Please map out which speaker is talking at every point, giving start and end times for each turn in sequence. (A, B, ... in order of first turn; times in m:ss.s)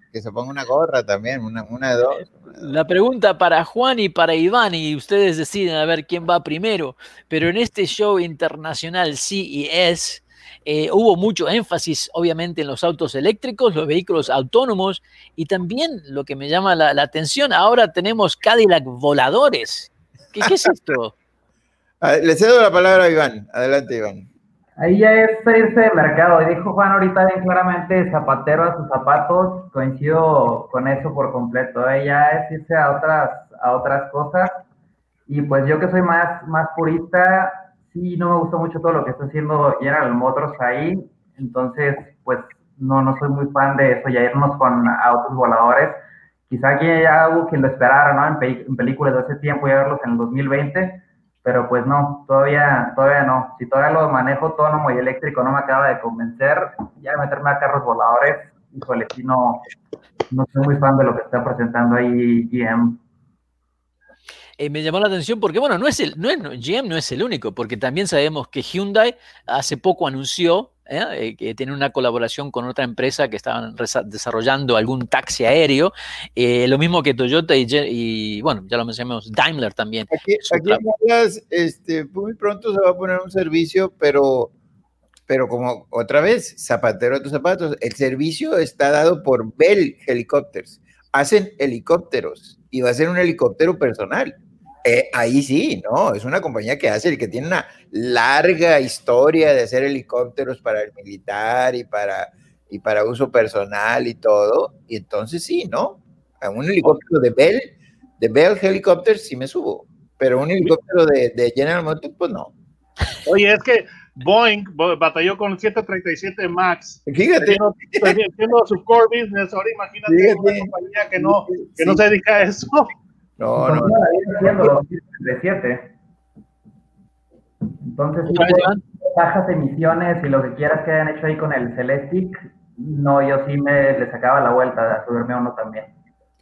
0:00.1-0:02.8 A
0:02.6-0:21.2 B
0:22.0-0:24.3 A
0:24.8-0:34.6 C
0:35.3-0:59.6 C
1:00.3-1:03.0 C
1:04.6-1:20.8 B
1:20.1-1:24.5 A
1:25.3-1:52.5 A
1:53.3-2:02.9 D
1:57.1-1:58.2 A
2:00.1-2:02.0 A
2:03.4-2:04.0 A
2:03.6-2:05.9 C
2:07.8-2:15.9 C
2:08.3-2:08.8 B